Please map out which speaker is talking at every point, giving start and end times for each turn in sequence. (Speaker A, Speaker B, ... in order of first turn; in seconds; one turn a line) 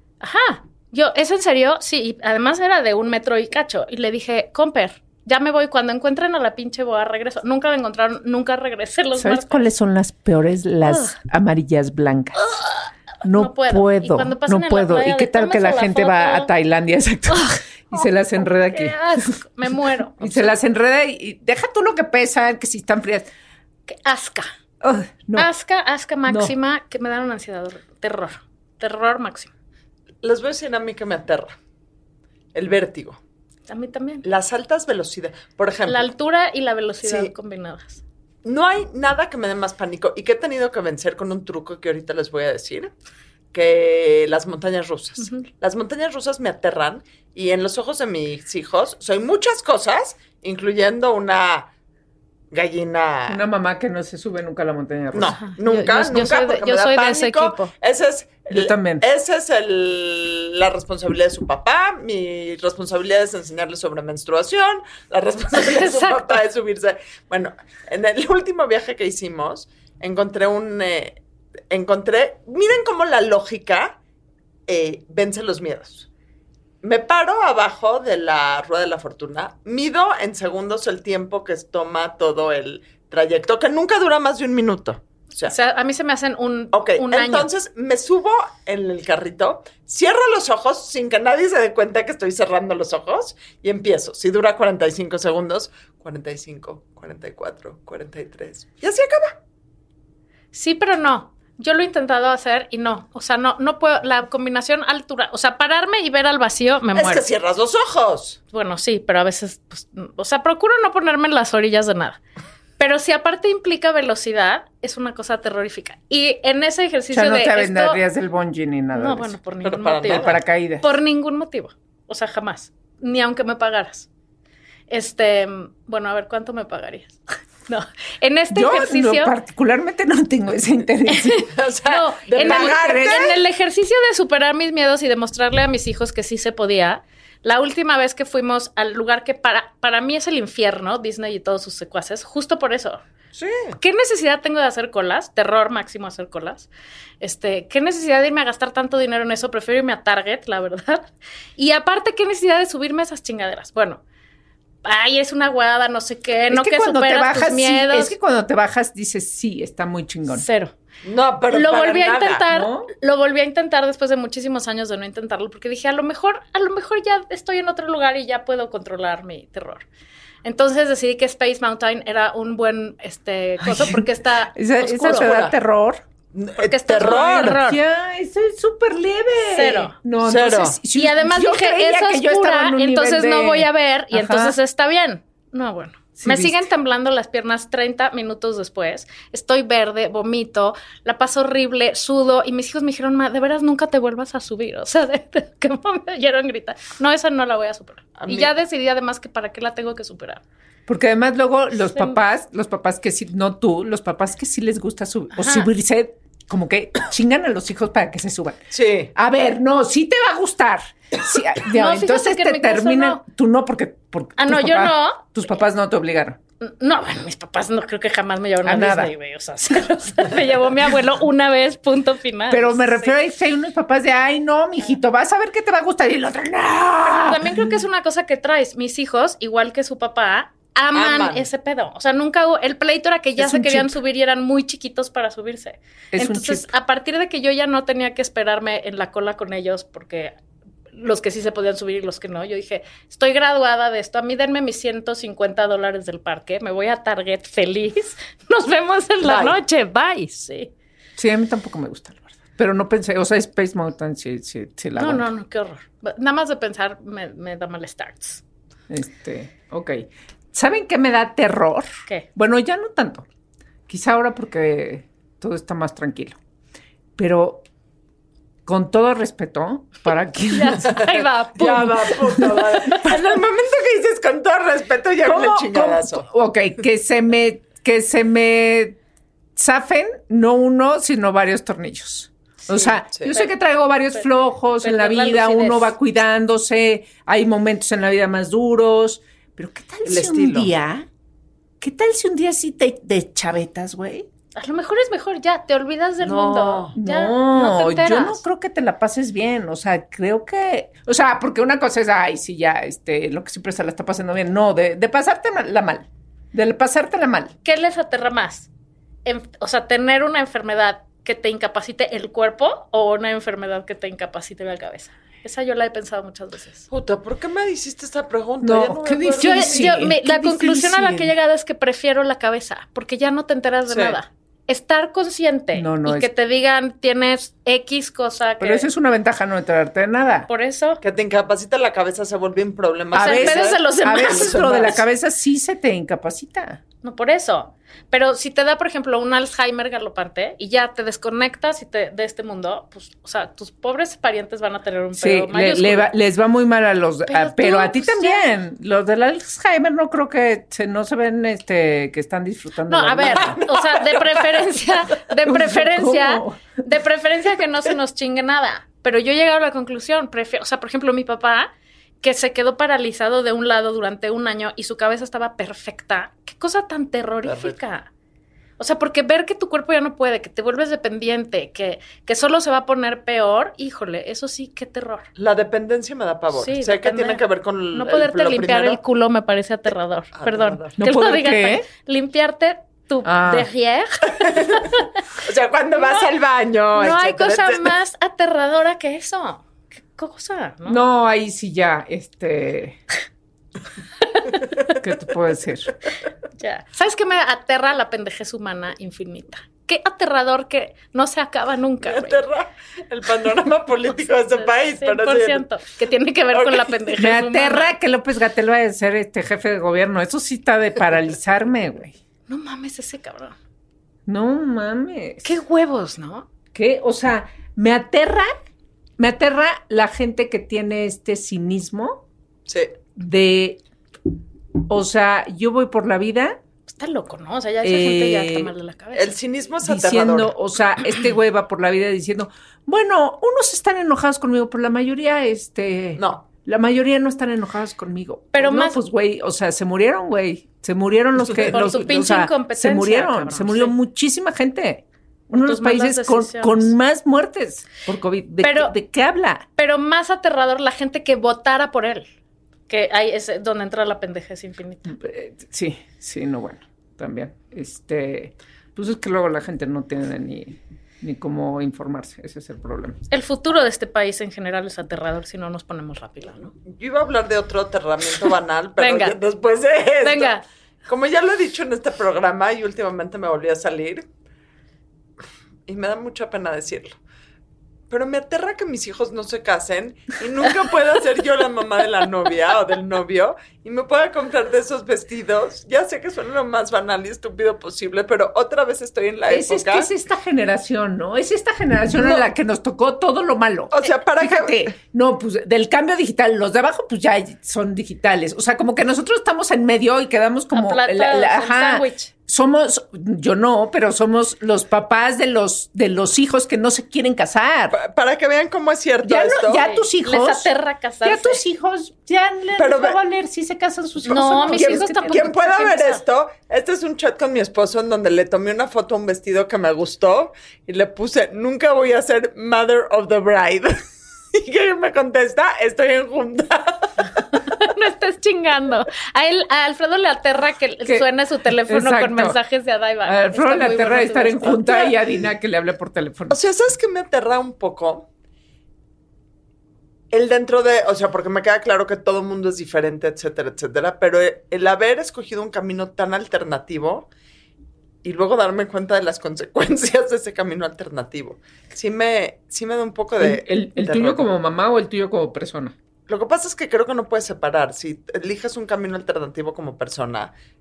Speaker A: 0.2-9.7
Speaker B: 9.2-12.5
Speaker A: 10.8-11.1
Speaker A: 12.4-12.7
Speaker B: 13.2-19.3
Speaker A: 13.2-16.5
Speaker A: 17.3-20.5
Speaker B: 20.2-23.3
Speaker A: 23.9-24.5
Speaker B: 24.8-25.5
Speaker A: 25.4-29.5
Speaker B: 26.3-26.5
Speaker C: 30.2-31.6
Speaker C: 32.5-33.2
Speaker A: 33.7-34.2
Speaker C: 34.2-36.1
Speaker A: 35.9-38.0
Speaker C: 37.0-37.3
Speaker C: 38.4-42.9
Speaker C: 43.5-51.7
Speaker A: 45.2-45.5
Speaker C: 52.5-53.4
Speaker B: 53.3-55.4
Speaker C: 55.1-71.2
Speaker A: 55.4-57.7
Speaker B: 58.5-59.0
Speaker A: 65.5-66.3
Speaker C: 71.7-74.0
Speaker C: 74.7-76.1
Speaker C: 76.8-85.5
Speaker A: 85.5-87.5
Speaker C: 86.7-99.4
Speaker A: 100.5-107.2
Speaker C: 106.9-108.4
Speaker A: 108.5-112.2
Speaker A: 112.8-118.0
Speaker B: 117.1-119.4
Speaker A: 118.9-124.1
Speaker C: 119.6-120.4
Speaker B: 120.1-120.8
Speaker A: 124.9-129.3
Speaker B: 128.5-131.4
Speaker A: 131.1-143.0
Speaker C: 131.5-133.4
Speaker B: 132.4-133.3
Speaker C: 143.3-143.8
Speaker A: 143.8-146.7
Speaker A: 147.2-154.0
Speaker A: 154.8-158.1
Speaker B: 156.5-160.4
Speaker A: 160.3-160.7
Speaker C: 161.0-162.4
Speaker A: 161.5-169.8
Speaker B: 162.5-162.9
Speaker A: 170.4-175.3
Speaker B: 173.7-174.0
Speaker B: 174.5-176.0
Speaker C: 174.8-175.5
Speaker C: 176.3-177.6
Speaker A: 176.6-177.8
Speaker B: 177.0-184.6
Speaker A: 179.5-179.9
Speaker C: 180.2-180.8
Speaker A: 180.9-200.4
Speaker B: 186.2-186.6
Speaker C: 198.2-198.5
Speaker B: 200.9-208.6
Speaker A: 201.9-202.2
Speaker A: 205.3-205.7
Speaker C: 208.7-209.1
Speaker B: 209.1-216.4
Speaker A: 211.7-213.2
Speaker A: 214.4-215.3
Speaker A: 216.6-223.1
Speaker B: 218.6-219.1
Speaker B: 222.5-227.8
Speaker A: 227.1-240.3
Speaker C: 230.9-231.5
Speaker B: 233.4-233.9
Speaker B: 236.1-236.7
Speaker A: 240.9-250.7
Speaker C: 249.2-249.6
Speaker B: 251.2-255.3
Speaker A: 255.0-258.4
Speaker B: 258.9-263.2
Speaker B: 263.9-266.4
Speaker B: 267.2-267.6
Speaker B: 268.6-271.0
Speaker A: 270.5-272.5
Speaker C: 271.5-276.3
Speaker B: 275.2-279.0
Speaker B: 279.6-291.1
Speaker A: 282.7-283.5
Speaker A: 284.8-285.9
Speaker C: 290.0-290.7
Speaker B: 291.8-294.3
Speaker A: 294.6-298.4
Speaker C: 296.2-296.9
Speaker B: 296.9-307.5
Speaker A: 307.6-308.7
Speaker A: 309.2-316.9
Speaker C: 316.9-319.9
Speaker B: 318.6-321.3
Speaker A: 319.4-328.9
Speaker C: 323.9-324.2
Speaker B: 325.7-326.3
Speaker B: 328.6-330.5
Speaker A: 330.5-331.0
Speaker C: 331.0-335.0
Speaker B: 333.1-336.8
Speaker A: 333.1-334.9
Speaker A: 337.0-346.1
Speaker B: 345.1-353.6
Speaker A: 347.3-348.5
Speaker A: 352.9-361.7
Speaker C: 353.4-354.7
Speaker B: 355.4-356.6
Speaker A: 362.2-368.1
Speaker C: 367.4-367.8
Speaker A: 368.8-375.3
Speaker C: 375.4-379.0
Speaker A: 376.5-385.1
Speaker C: 380.3-380.9
Speaker B: 381.0-381.9
Speaker B: 383.2-383.7
Speaker C: 384.4-384.8
Speaker C: 385.4-387.9
Speaker A: 386.9-391.0
Speaker B: 390.9-393.0
Speaker B: 394.9-395.9
Speaker A: 396.6-402.4
Speaker C: 402.0-405.6
Speaker A: 404.5-407.9
Speaker C: 406.5-406.9
Speaker B: 407.2-412.1
Speaker A: 412.5-413.6
Speaker B: 414.3-415.5
Speaker A: 415.4-416.5
Speaker B: 416.7-418.5
Speaker B: 419.2-422.2
Speaker C: 422.7-422.9
Speaker B: 423.1-423.8
Speaker B: 424.9-426.6
Speaker A: 426.9-429.4
Speaker B: 427.8-428.7
Speaker C: 429.1-430.5
Speaker B: 429.8-449.6
Speaker C: 436.2-436.4
Speaker A: 438.5-439.0
Speaker A: 441.6-443.9
Speaker A: 445.6-446.9
Speaker A: 448.6-448.9
Speaker A: 449.8-452.2
Speaker A: 452.9-455.1
Speaker B: 455.1-463.2
Speaker A: 463.3-466.7
Speaker C: 466.9-470.5
Speaker A: 469.0-469.4
Speaker A: 470.2-470.6
Speaker C: 471.1-474.2
Speaker C: 475.9-477.2
Speaker C: 478.1-490.1
Speaker B: 489.5-507.9
Speaker C: 492.1-492.4
Speaker C: 493.9-494.9
Speaker A: 500.7-502.3
Speaker C: 507.9-509.9
Speaker B: 509.2-510.7
Speaker A: 509.7-511.6
Speaker B: 511.2-515.5
Speaker C: 512.8-513.2
Speaker C: 514.2-524.0
Speaker A: 514.3-516.2
Speaker C: 524.5-527.3
Speaker A: 527.7-535.1
Speaker B: 531.9-532.6
Speaker B: 533.2-536.6
Speaker C: 534.9-535.1
Speaker C: 536.5-538.2
Speaker C: 540.3-547.3
Speaker C: 548.2-554.5
Speaker B: 553.4-555.9
Speaker C: 556.3-560.5